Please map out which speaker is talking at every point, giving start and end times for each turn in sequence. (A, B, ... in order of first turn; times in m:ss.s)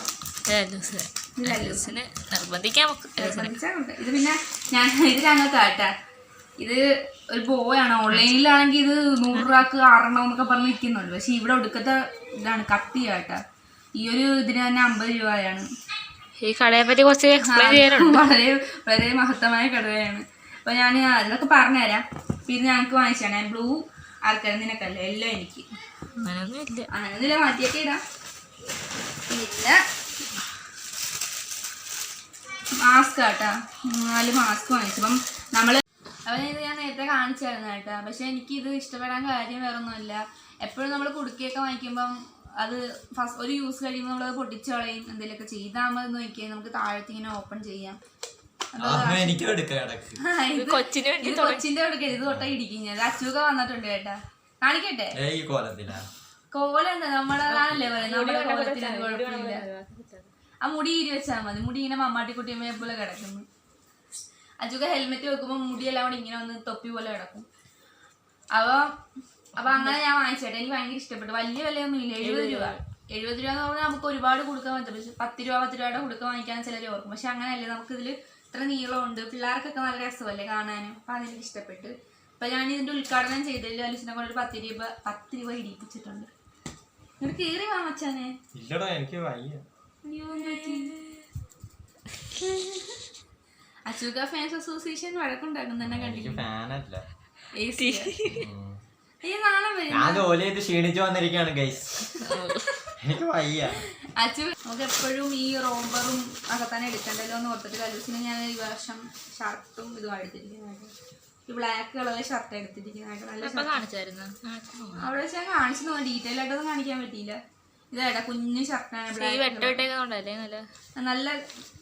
0:00.5-0:03.6 A
0:01.4-0:02.0 B
0:03.2-0:05.9 B
0:06.6-0:13.4 B
0:09.3-0:09.6 A
0:14.0-0:15.7 B
0:16.4-0:18.2 A
0:17.4-0:25.7 B
0:26.2-0:26.9 A
0:26.9-0:28.0 B
0:29.3-0:29.8 B
0:32.8-0:48.0 B
0:48.7-0:49.5 B
0:48.8-0:50.2 C
0:50.2-0:55.2 B
0:50.6-0:51.6 A
0:55.1-0:56.1 C
0:56.5-0:59.6 B
0:57.5-1:00.3 A
1:00.6-1:03.5 B
1:04.6-1:07.5 B
1:08.6-1:08.9 B
1:09.6-1:26.3 B
1:12.2-1:12.8 A
1:27.2-1:28.4 B
1:28.5-1:29.6 C
1:30.0-1:31.0 B
1:30.4-1:31.2 A
1:33.9-1:36.4 B
1:35.8-1:37.1 C
1:37.5-1:38.2 B
1:37.8-1:38.5 A
1:38.3-1:38.8 C
1:39.2-1:40.3 B
1:39.9-1:42.1 C
1:42.2-1:42.6 A
1:43.0-1:43.8 C
1:44.2-1:50.9 B
1:51.5-1:53.8 B
1:53.4-1:55.1 A
1:55.0-1:57.4 B
1:57.9-1:59.8 B
1:59.1-2:00.7 A
2:01.0-2:01.4 B